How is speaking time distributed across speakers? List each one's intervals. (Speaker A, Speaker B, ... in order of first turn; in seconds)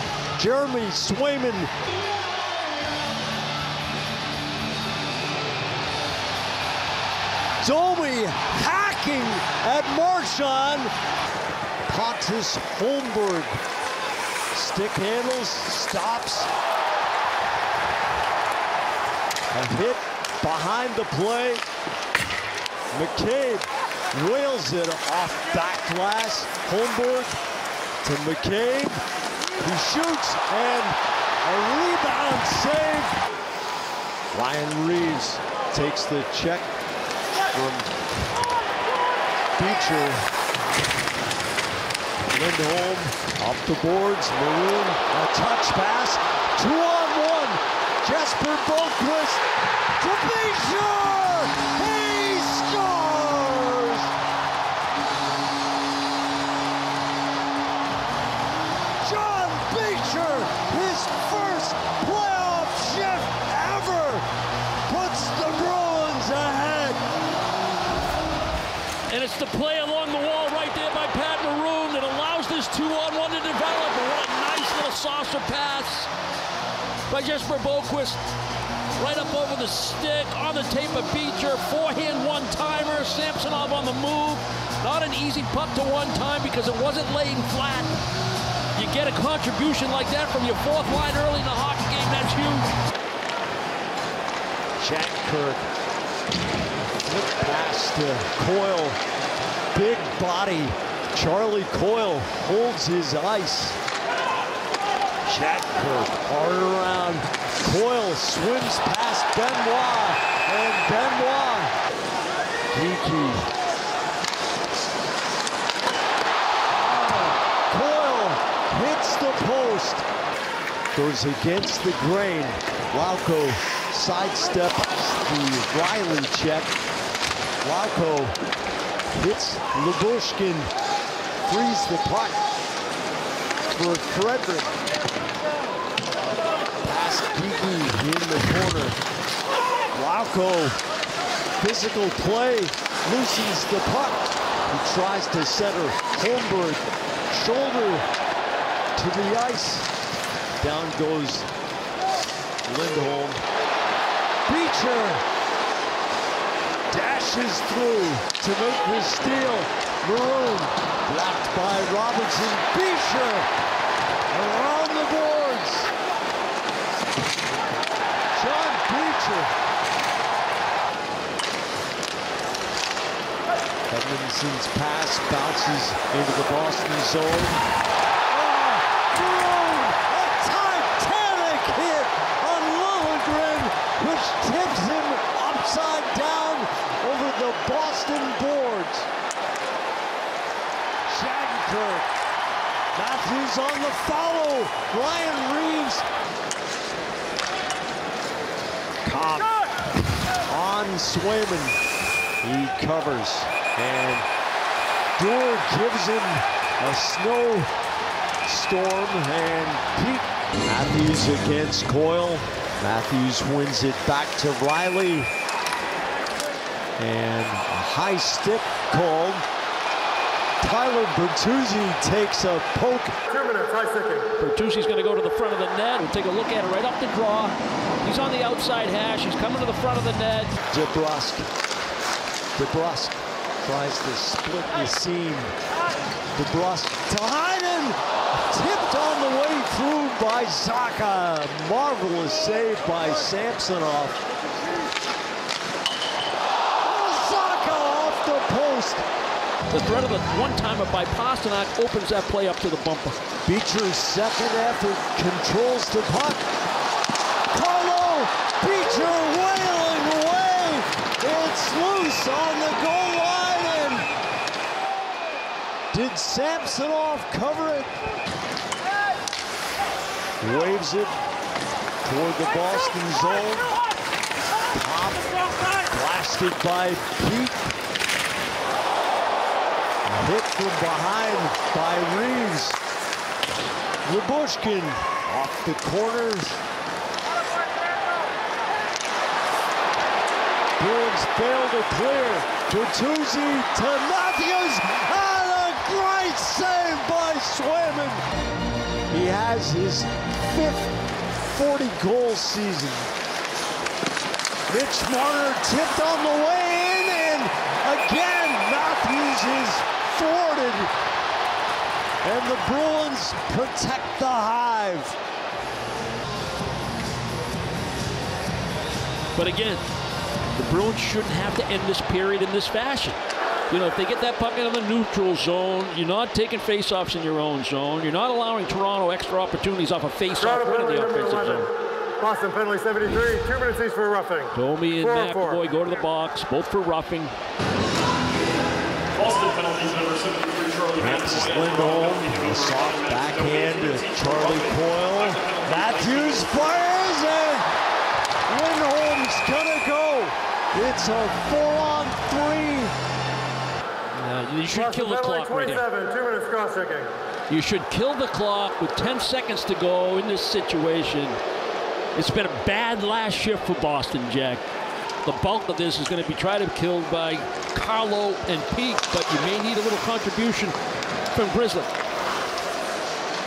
Speaker A: 0.3-1.7, 7.6-10.9, 11.8-13.6, 14.5-16.5, 19.5-21.6, 22.9-27.4, 28.0-29.0, 29.6-33.1, 34.3-36.7, 37.5-37.9, 39.6-40.2, 42.3-49.4, 50.0-54.1, 59.0-64.2, 64.8-67.0, 94.8-95.7, 97.0-99.0, 99.7-103.8, 105.3-111.7, 112.7-113.5, 116.8-120.0, 120.9-126.7, 127.6-128.3, 129.1-130.7, 131.4-132.4, 133.7-134.7, 136.8-139.0, 139.9-140.8, 141.6-148.0, 148.9-149.9, 150.6-151.5, 152.7-153.4, 154.4-155.2, 156.9-163.5, 164.3-165.9, 168.3-169.5, 173.9-177.6, 178.3-189.1, 191.1-192.1, 192.9-196.0, 199.0-199.5, 200.5-201.8, 202.4-204.2, 205.2-207.7, 208.4-215.3, 217.0-219.4, 220.6-223.1, 230.7-231.4, 232.6-235.5, 236.3-237.9, 238.5-244.2, 246.8-249.0, 253.4-256.4, 257.5-264.1, 265.9-267.9, 270.4-271.1, 272.0-273.7, 274.7-277.7, 280.0-282.8, 284.1-286.6, 290.8-298.2, 299.1-300.9, 301.5-303.1, 304.7-310.9, 312.2-315.1, 340.9-347.6, 348.5-352.9
Speaker B: 69.1-76.1, 77.1-78.2, 79.0-87.9, 88.7-92.7, 224.4-230.5, 249.7-253.2, 319.4-319.8, 320.5-323.2, 323.7-331.7, 334.5-337.3, 339.2-346.8, 354.1-355.9, 357.5-361.4, 362.1-364.6, 365.2-370.7, 371.3-371.9
Speaker C: 223.4-224.2, 332.2-334.5, 355.9-357.1